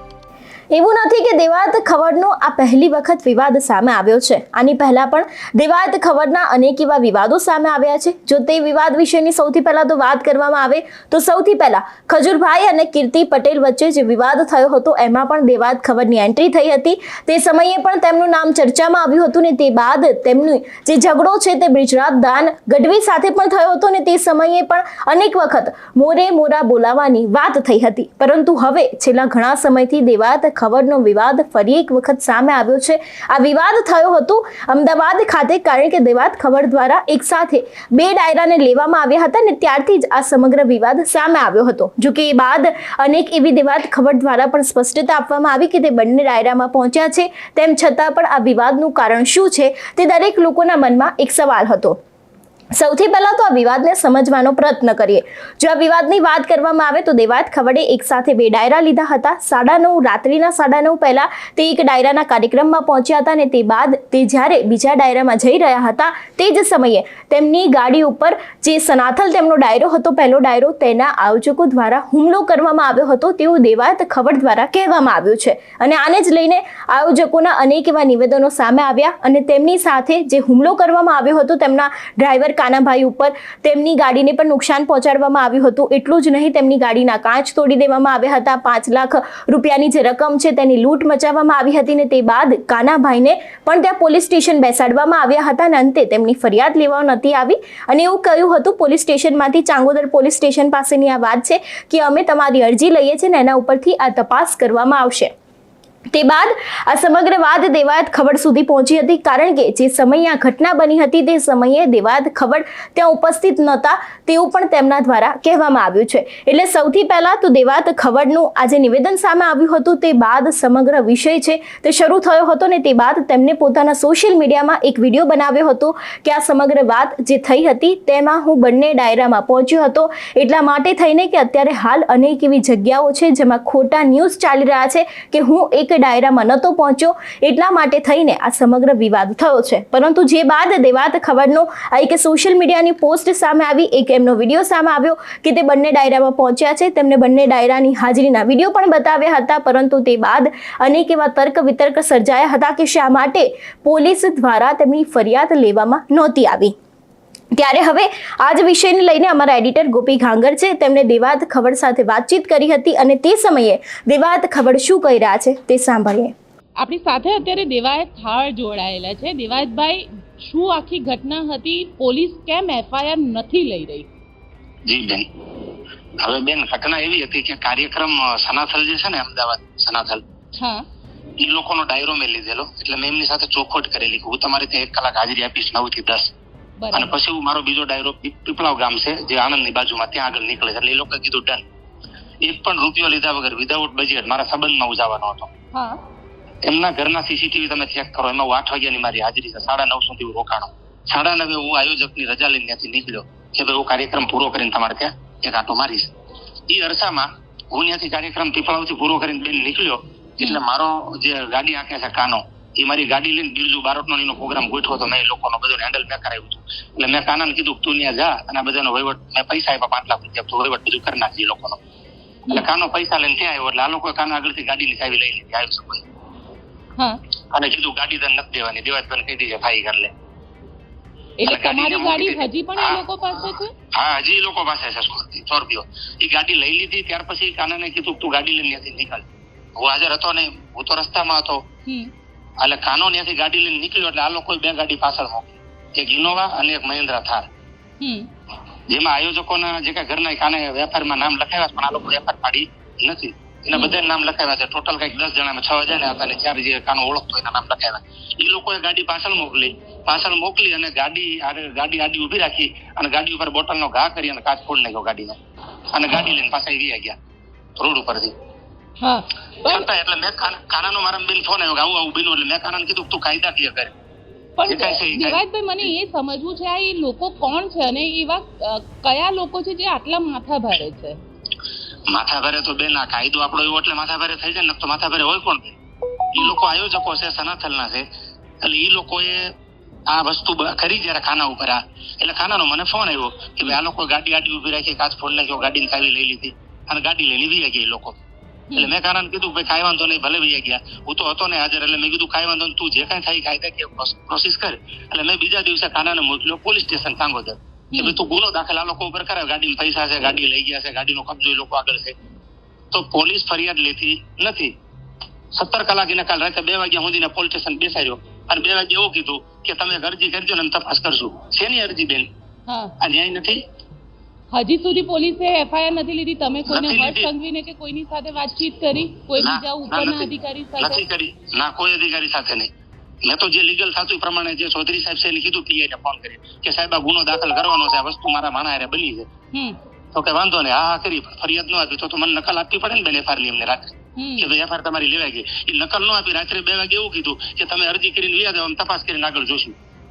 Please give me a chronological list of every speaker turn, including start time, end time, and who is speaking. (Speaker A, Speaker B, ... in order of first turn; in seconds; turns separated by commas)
Speaker A: 0.7-52.0, Speaker A: 52.8-105.3, Speaker A: 106.1-156.7, Speaker A: 157.6-166.3, Speaker B: 166.8-174.1, Speaker C: 174.9-175.3, Speaker C: 176.2-180.2, Speaker B: 180.6-180.8, Speaker C: 181.4-186.3, Speaker B: 186.8-187.1, Speaker C: 186.9-191.6, Speaker C: 192.4-195.5, Speaker B: 195.7-196.0, Speaker C: 196.6-206.1, Speaker C: 206.7-221.8, Speaker C: 222.5-226.0, Speaker C: 227.5-230.1, Speaker B: 231.4-233.7, Speaker C: 231.4-233.0, Speaker C: 233.9-239.2, Speaker C: 239.8-241.6, Speaker C: 242.6-247.5, Speaker B: 248.0-248.3, Speaker C: 248.9-265.4, Speaker C: 265.9-267.2, Speaker C: 267.8-268.3, Speaker B: 269.0-269.9, Speaker C: 269.7-273.9, Speaker B: 274.6-281.2, Speaker C: 274.7-275.4, Speaker C: 282.1-285.8, Speaker C: 286.3-288.1, Speaker C: 288.6-289.5, Speaker C: 290.1-298.2, Speaker C: 298.8-312.1, Speaker C: 312.9-314.7, Speaker C: 315.6-322.3, Speaker B: 322.7-322.9, Speaker C: 323.0-323.6, Speaker B: 324.5-331.0, Speaker C: 326.7-327.3, Speaker C: 329.4-332.7, Speaker C: 333.2-339.3, Speaker C: 340.1-349.8, Speaker B: 344.2-344.5